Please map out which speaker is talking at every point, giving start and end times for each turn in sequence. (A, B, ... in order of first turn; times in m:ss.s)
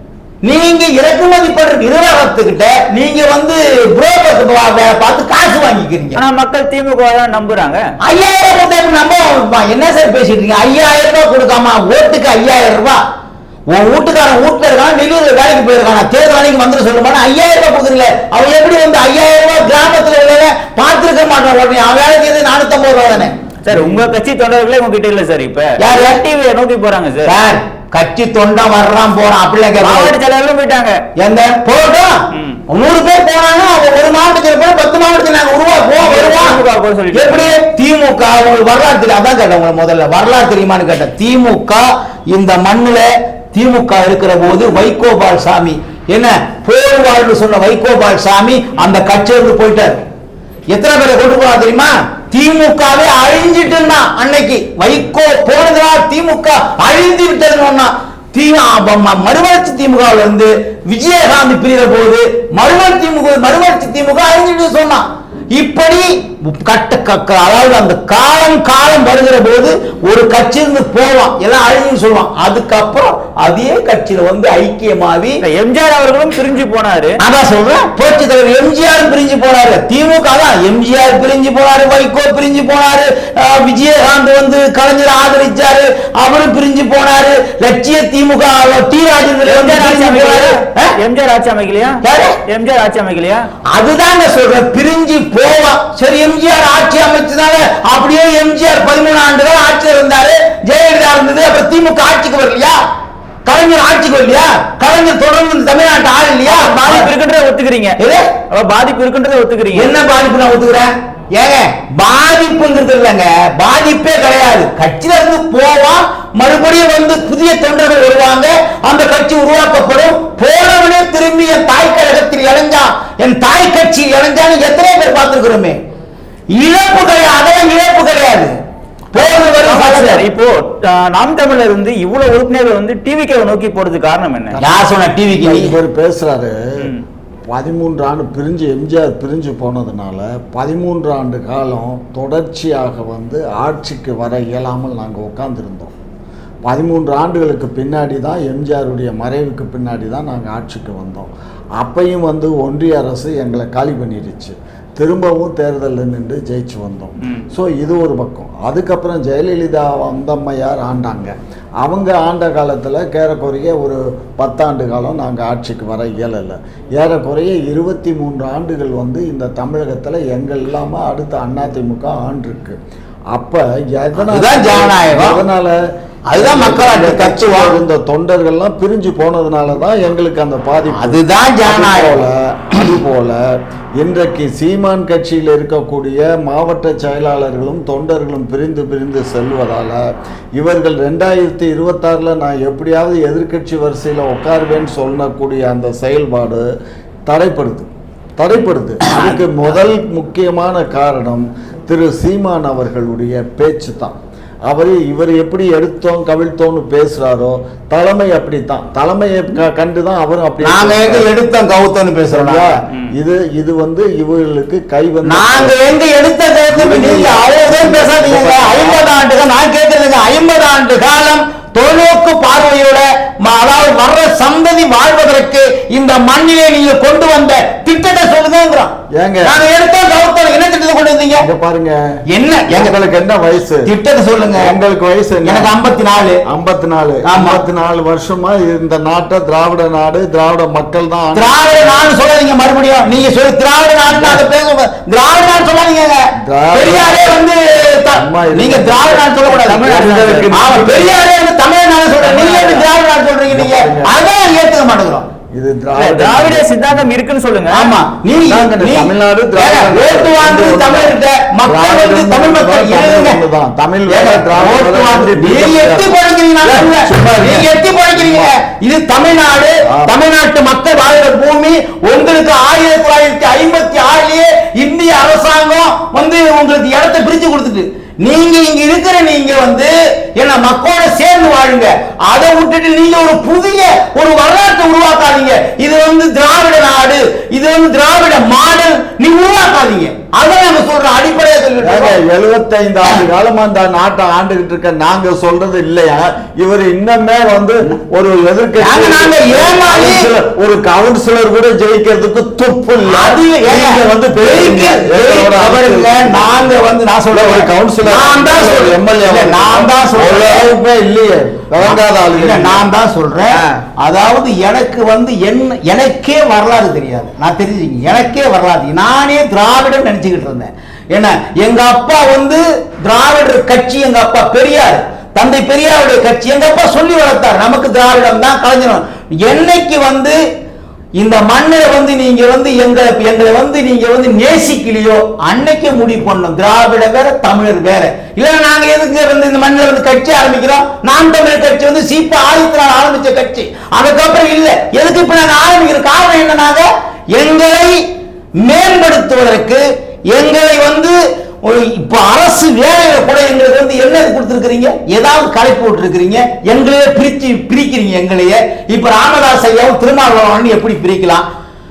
0:00.4-0:06.2 A
0:06.1-0:07.8 B
0:08.0-0:13.0 A
0:13.7-0:23.4 A
0:23.6-0:27.3 B
0:25.8-0:26.2 A
0:27.2-0:30.1 A
0:29.8-0:31.0 B
0:31.2-0:36.6 A
0:32.3-0:32.6 B
0:36.0-0:37.6 B
0:37.1-0:50.0 A
0:50.7-1:15.4 A
1:15.4-1:17.2 B
1:17.2-1:30.9 A
1:29.4-1:33.5 B
1:32.0-1:32.4 A
1:33.7-1:42.8 A
1:43.4-1:47.1 A
1:46.4-1:48.0 B
1:48.0-1:48.3 A
1:48.5-1:49.9 B
1:49.7-2:05.8 A
2:06.5-2:08.5 A
2:09.1-2:10.2 A
2:09.1-2:14.6 B
2:14.5-2:16.9 C
2:14.6-2:15.7 A
2:17.5-2:25.9 C
2:26.6-2:52.8 C
2:53.3-2:55.8 C
2:54.2-2:55.4 A
2:56.3-2:57.8 A
2:56.3-3:16.6 C
3:00.9-3:02.2 A
3:17.3-3:31.3 C
3:30.6-3:32.8 A
3:32.3-3:35.8 C
3:35.2-3:51.5 A
3:36.7-3:39.1 C
3:49.1-3:49.6 C
3:51.4-3:53.9 C
3:52.3-3:52.9 A
3:53.8-3:54.7 A
3:54.6-3:55.7 C
3:55.4-3:56.4 A
3:56.4-4:01.5 C
3:57.2-3:57.6 A
4:01.3-4:10.0 A
4:06.4-4:07.4 C
4:08.2-4:11.2 C
4:09.5-4:10.6 B
4:10.5-4:15.3 A
4:12.2-4:12.9 B
4:13.5-4:14.1 C
4:15.5-4:17.0 C
4:16.0-4:17.9 B
4:17.7-4:23.4 A
4:18.4-4:28.5 C
4:24.1-4:52.2 A
4:29.8-4:30.1 C
4:51.8-5:06.6 C
4:58.8-5:00.3 A
5:03.0-5:10.7 A
5:07.3-5:12.9 C
5:11.8-5:30.4 A
5:13.5-5:13.8 C
5:31.2-5:48.0 A
5:48.6-6:01.5 A